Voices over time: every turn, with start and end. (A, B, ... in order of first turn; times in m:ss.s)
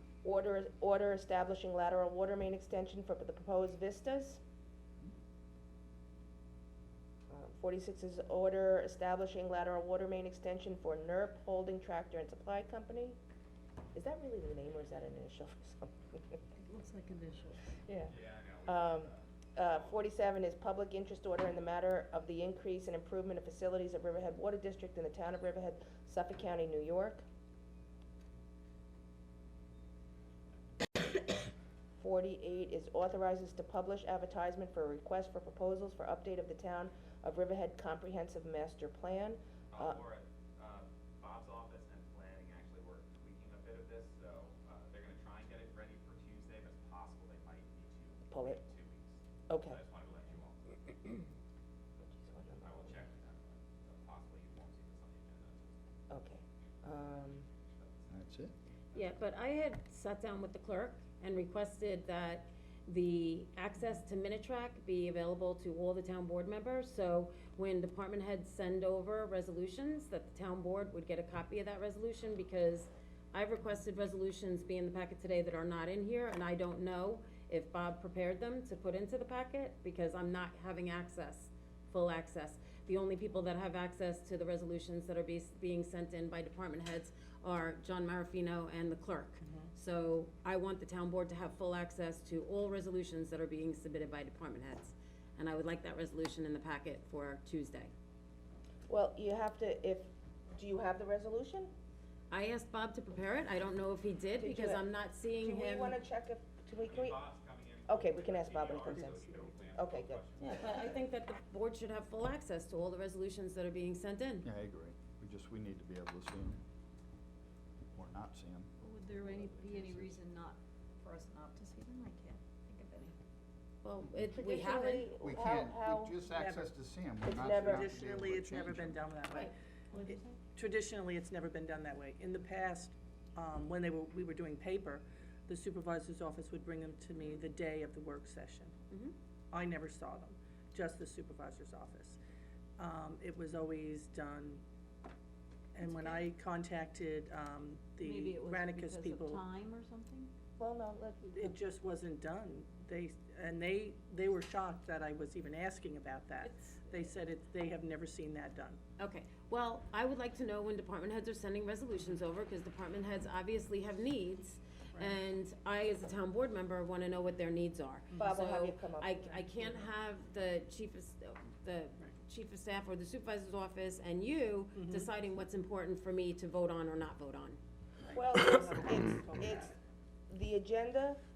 0:00.2-0:04.4 A
0:07.3-0:13.2 A
0:13.9-0:16.4 A
0:16.7-0:17.6 B
0:17.8-0:27.2 A
0:18.0-0:20.0 C
0:32.0-0:40.0 A
0:39.7-0:50.9 C
0:48.3-0:48.6 A
0:49.5-0:49.8 A
0:52.2-0:53.0 A
0:52.3-0:55.8 C
0:56.1-0:57.4 A
0:57.7-0:58.0 C
0:58.1-0:58.5 D
0:58.9-1:37.9 E
1:29.4-1:29.7 F
1:38.9-1:41.7 A
1:42.3-1:46.0 E
1:44.4-1:44.8 A
1:45.4-1:47.2 A
1:46.8-1:51.0 C
1:47.9-1:50.7 A
1:49.0-1:49.4 F
1:50.4-1:54.4 E
1:54.4-1:56.6 D
1:57.9-1:58.7 D
1:58.8-2:03.1 B
2:03.8-2:05.1 E
2:04.3-2:06.1 A
2:05.2-2:09.0 D
2:06.3-2:06.8 F
2:07.2-2:07.9 A
2:07.4-2:18.7 F
2:09.9-2:10.4 B
2:19.5-2:22.2 F
2:22.8-2:24.6 F
2:25.7-2:29.4 F
2:28.0-2:30.3 B
2:30.6-2:31.5 A
2:31.3-2:38.8 F
2:36.4-2:36.8 E
2:39.0-2:57.6 E
2:48.2-2:49.4 A
2:54.8-2:55.1 F
2:58.0-2:59.7 F
2:58.1-2:59.7 A
3:00.3-3:01.2 A